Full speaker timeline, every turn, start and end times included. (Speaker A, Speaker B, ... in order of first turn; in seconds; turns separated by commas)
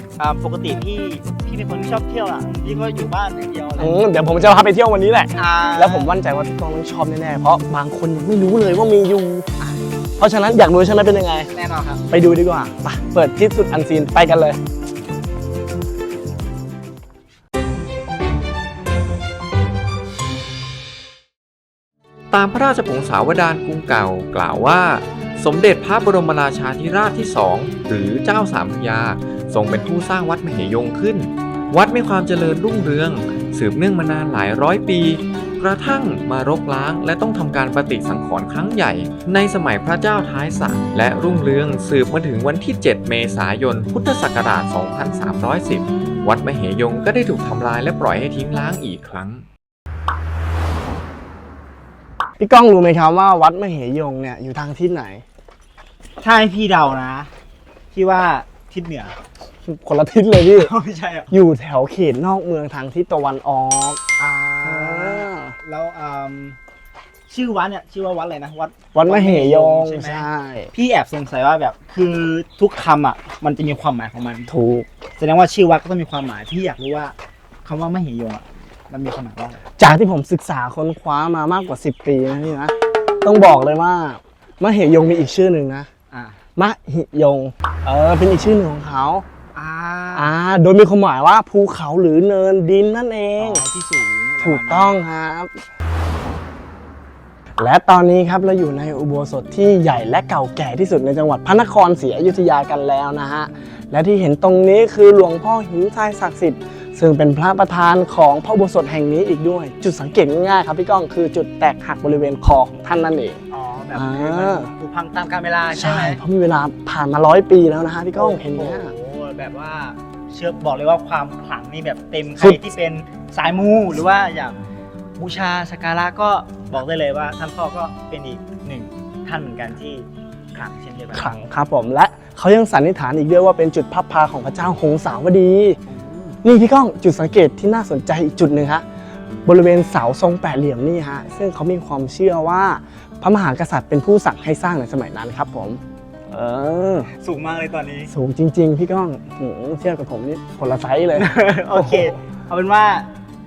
Speaker A: 0.2-4.0, Speaker B: 3.8-9.6, Speaker A: 5.3-6.1, Speaker B: 10.2-11.5, Speaker A: 11.5-12.0, Speaker B: 12.1-14.6, Speaker C: 22.3-49.5, Speaker B: 52.4-55.2, Speaker A: 56.2-57.3, Speaker A: 57.9-59.1, Speaker B: 59.6-60.7, Speaker A: 60.5-61.3, Speaker B: 61.3-65.6, Speaker A: 64.2-66.6, Speaker A: 67.3-74.5, Speaker B: 68.9-70.7, Speaker B: 74.5-74.9, Speaker A: 75.2-79.6, Speaker B: 79.8-85.9, Speaker A: 86.1-86.4, Speaker B: 86.6-89.2, Speaker A: 89.5-90.3, Speaker B: 90.2-93.7, Speaker A: 93.4-95.0, Speaker B: 94.4-95.6, Speaker B: 97.6-113.4, Speaker A: 113.5-116.2, Speaker B: 113.9-114.7, Speaker B: 115.7-118.9, Speaker A: 118.2-124.6, Speaker A: 125.2-131.3, Speaker B: 131.1-135.8, Speaker A: 135.9-136.4, Speaker B: 136.4-138.8, Speaker B: 139.4-147.1, Speaker A: 147.2-148.1, Speaker B: 148.1-152.1, Speaker A: 151.2-153.1